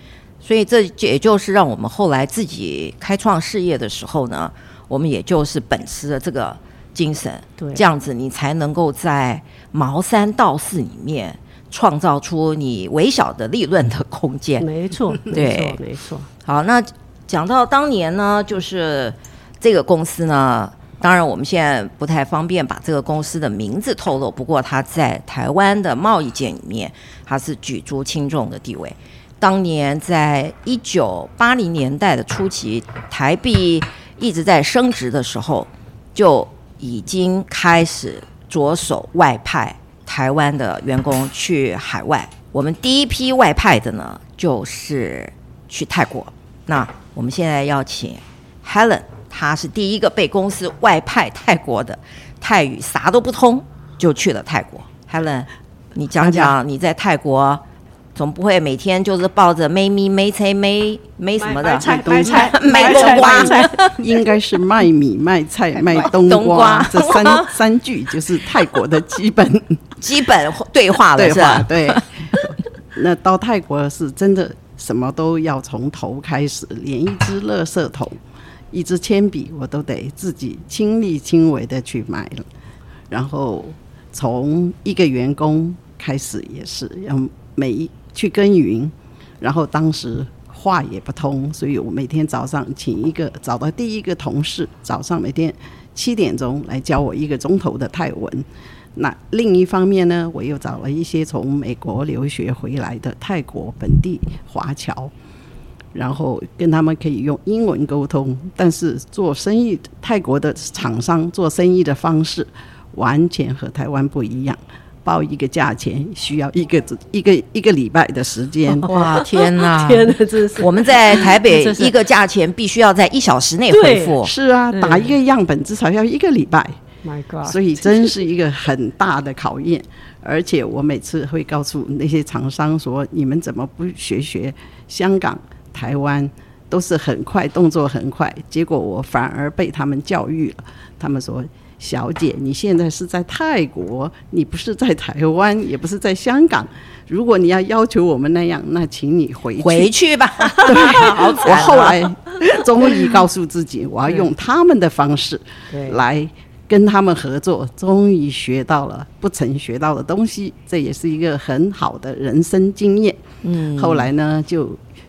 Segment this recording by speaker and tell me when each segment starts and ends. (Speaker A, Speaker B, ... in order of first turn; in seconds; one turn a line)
Speaker A: 0.4-14.7
Speaker B: 7.6-7.8
Speaker B: 14.6-16.3
Speaker A: 15.2-15.8
Speaker A: 16.4-57.6
Speaker C: 56.2-56.5
Speaker A: 58.1-64.0
Speaker B: 61.4-63.9
Speaker C: 61.9-69.9
Speaker A: 65.9-67.5
Speaker A: 70.0-72.5
Speaker C: 71.2-82.5
Speaker C: 83.1-105.1
Speaker C: 105.9-118.9
Speaker B: 118.8-121.9
Speaker A: 118.8-124.3
Speaker B: 123.7-124.2
Speaker C: 124.2-126.8
Speaker B: 124.7-125.1
Speaker B: 127.0-128.1
Speaker C: 127.4-149.9
Speaker A: 149.6-152.0
Speaker C: 150.6-163.2
Speaker B: 150.6-151.1
Speaker B: 155.7-156.0
Speaker A: 163.4-164.1
Speaker C: 163.7-164.8